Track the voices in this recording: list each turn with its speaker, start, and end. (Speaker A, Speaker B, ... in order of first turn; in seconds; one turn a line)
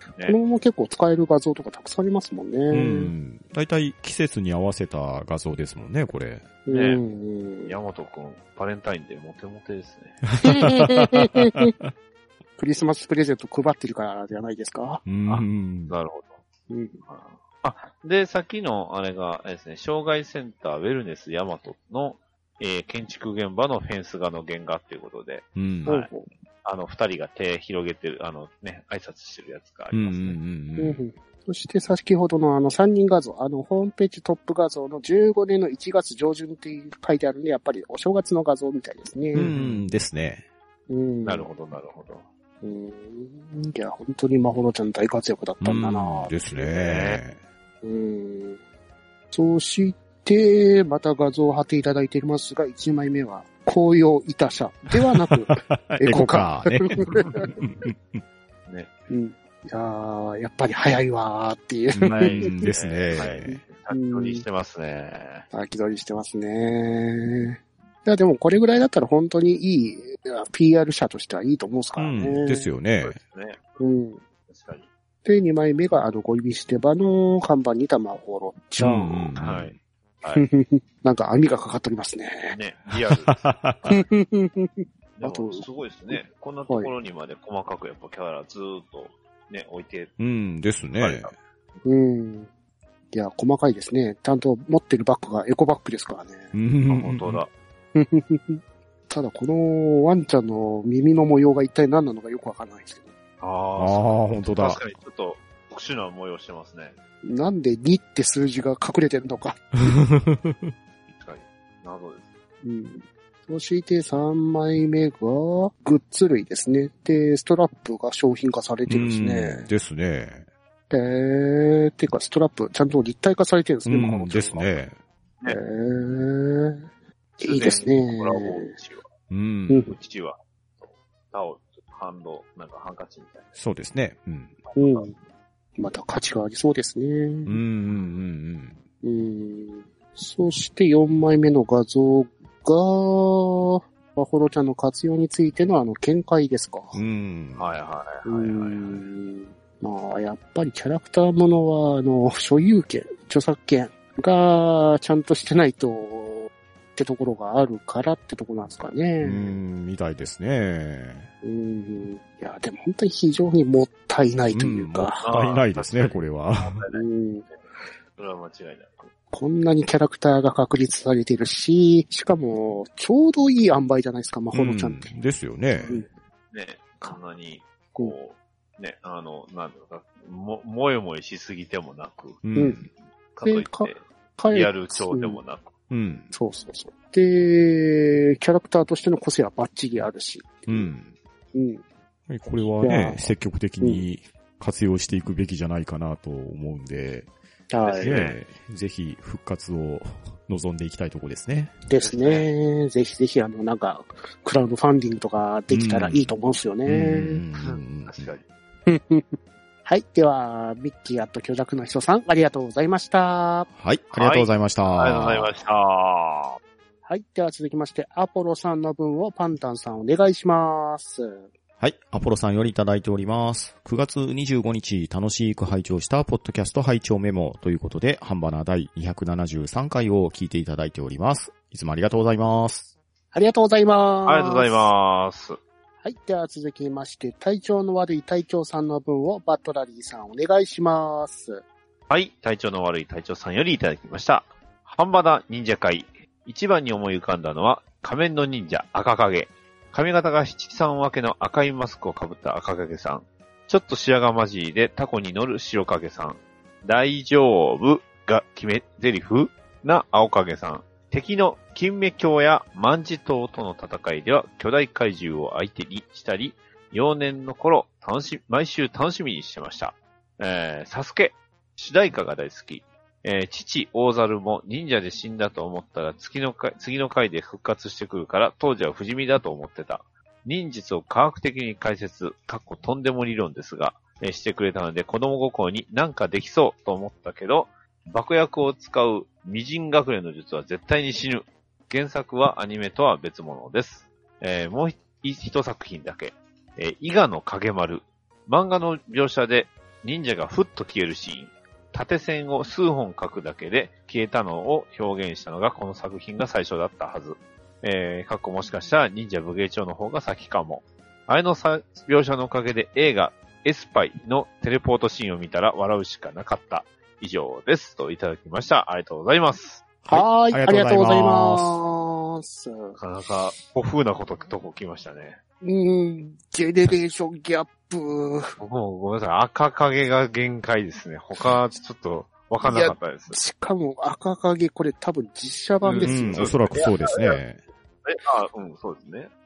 Speaker A: 0.2-3.1
Speaker B: 2.7-6.5
Speaker A: 6.7-7.8
Speaker C: 6.7-7.0
Speaker C: 7.7-10.2
Speaker B: 10.3-11.9
Speaker A: 10.4-11.7
Speaker A: 12.6-15.0
Speaker B: 15.1-15.9
Speaker C: 15.2-16.4
Speaker A: 16.7-17.0
Speaker C: 17.0-26.1
Speaker B: 25.6-25.9
Speaker A: 25.9-26.3
Speaker C: 26.6-30.4
Speaker B: 29.9-31.0
Speaker A: 30.8-39.5
Speaker C: 39.3-39.9
Speaker B: 39.3-40.4
Speaker A: 40.9-41.5
Speaker C: 41.2-42.3
Speaker A: 42.6-46.3
Speaker B: 45.6-47.4
Speaker C: 46.5-47.2
Speaker A: 47.8-48.6
Speaker A: 49.3-57.5
Speaker B: 55.0-58.2
Speaker C: 57.1-57.5
Speaker C: 58.7-58.9
Speaker A: 59.1-64.4
Speaker B: 61.9-63.6
Speaker C: 62.1-65.5
Speaker A: 65.5-72.7
Speaker B: 72.0-73.2
Speaker C: 73.0-73.7
Speaker A: 73.8-74.2
Speaker C: 74.5-74.9
Speaker A: 75.2-79.3
Speaker B: 78.8-79.8
Speaker C: 79.3-80.5
Speaker A: 80.3-82.6
Speaker C: 82.5-83.4
Speaker B: 83.2-84.0
Speaker A: 83.9-86.9
Speaker C: 85.2-90.1
Speaker B: 90.2-91.3
Speaker C: 90.9-91.3
Speaker A: 91.8-92.5
Speaker A: 93.1-96.5
Speaker B: 96.5-97.4
Speaker C: 96.9-97.5
Speaker A: 97.9-103.1
Speaker C: 103.4-107.0
Speaker B: 103.8-104.8
Speaker A: 107.2-109.9
Speaker B: 109.8-110.7
Speaker C: 111.2-112.3
Speaker A: 112.6-119.7
Speaker B: 118.9-120.4
Speaker A: 120.9-124.7
Speaker B: 123.8-125.0
Speaker A: 125.5-126.9
Speaker A: 127.4-128.7
Speaker C: 127.4-129.1
Speaker B: 129.3-129.9
Speaker A: 129.7-129.9
Speaker C: 129.9-133.5
Speaker B: 133.6-134.6
Speaker C: 134.7-135.1
Speaker A: 134.8-135.1
Speaker A: 135.8-137.6
Speaker B: 137.4-138.8
Speaker A: 139.0-147.0
Speaker B: 146.9-147.6
Speaker C: 147.6-149.1
Speaker A: 148.2-159.6
Speaker B: 159.2-161.3
Speaker A: 161.4-165.2
Speaker B: 164.5-166.8
Speaker C: 165.2-167.6
Speaker A: 166.9-167.5
Speaker C: 168.2-169.1
Speaker A: 169.3-175.2
Speaker B: 174.5-175.9
Speaker C: 175.8-182.4
Speaker B: 182.4-182.8
Speaker A: 182.6-182.8
Speaker C: 183.3-185.7
Speaker A: 183.4-185.4
Speaker B: 185.9-186.3
Speaker A: 186.3-190.9
Speaker B: 190.7-191.1
Speaker A: 191.5-191.8
Speaker B: 192.3-197.3
Speaker A: 192.8-194.1
Speaker A: 197.7-198.2
Speaker C: 197.8-198.4
Speaker B: 198.0-201.8
Speaker A: 201.9-207.4
Speaker C: 202.0-202.5
Speaker B: 205.7-206.3
Speaker B: 206.8-208.3
Speaker C: 207.6-208.4
Speaker A: 208.9-213.7
Speaker B: 213.8-215.5
Speaker C: 214.1-216.6
Speaker A: 217.1-221.4
Speaker B: 221.8-232.9
Speaker A: 233.3-234.9
Speaker C: 234.2-235.6
Speaker A: 236.0-241.6
Speaker C: 242.1-319.8
Speaker B: 320.0-321.8
Speaker A: 320.1-323.0
Speaker C: 323.0-325.4
Speaker A: 325.6-328.6
Speaker C: 328.6-333.4
Speaker A: 332.6-336.8
Speaker C: 335.8-337.4
Speaker B: 336.1-337.6
Speaker C: 338.1-339.3